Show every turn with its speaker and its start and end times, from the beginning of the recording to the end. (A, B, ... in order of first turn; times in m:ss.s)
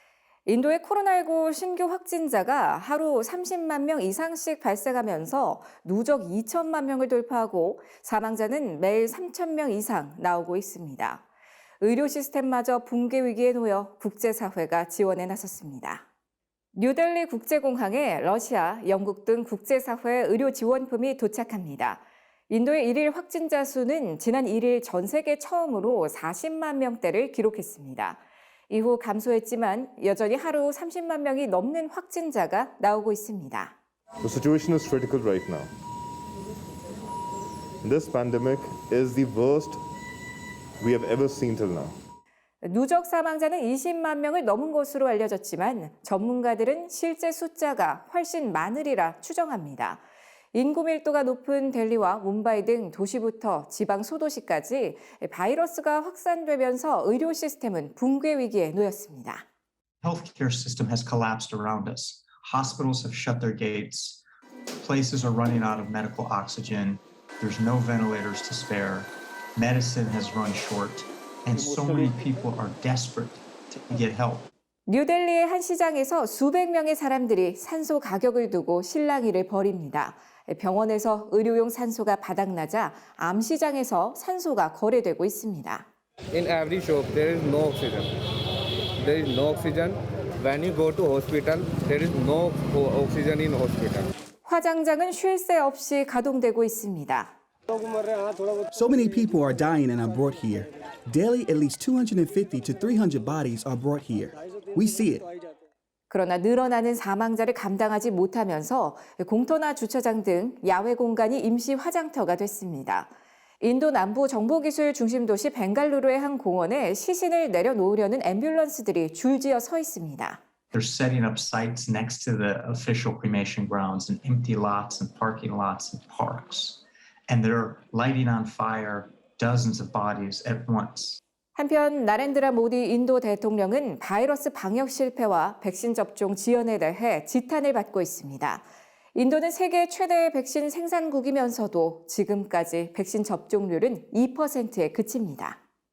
0:00.5-0:11.2 A
0:11.8-0:16.0 A
0:16.8-0:33.8 A
0:34.2-0:35.7 B
0:37.8-0:39.8 B
0:40.8-0:42.0 B
0:42.6-0:50.0 A
0:50.5-0:59.4 A
1:00.0-1:04.2 C
1:04.8-1:14.5 C
1:11.5-1:12.1 D
1:14.9-1:25.9 A
1:26.3-1:28.2 D
1:29.0-1:34.1 D
1:34.4-1:37.3 A
1:38.7-1:45.3 E
1:46.1-2:00.4 A
2:00.7-2:11.2 C
2:11.6-2:25.6 A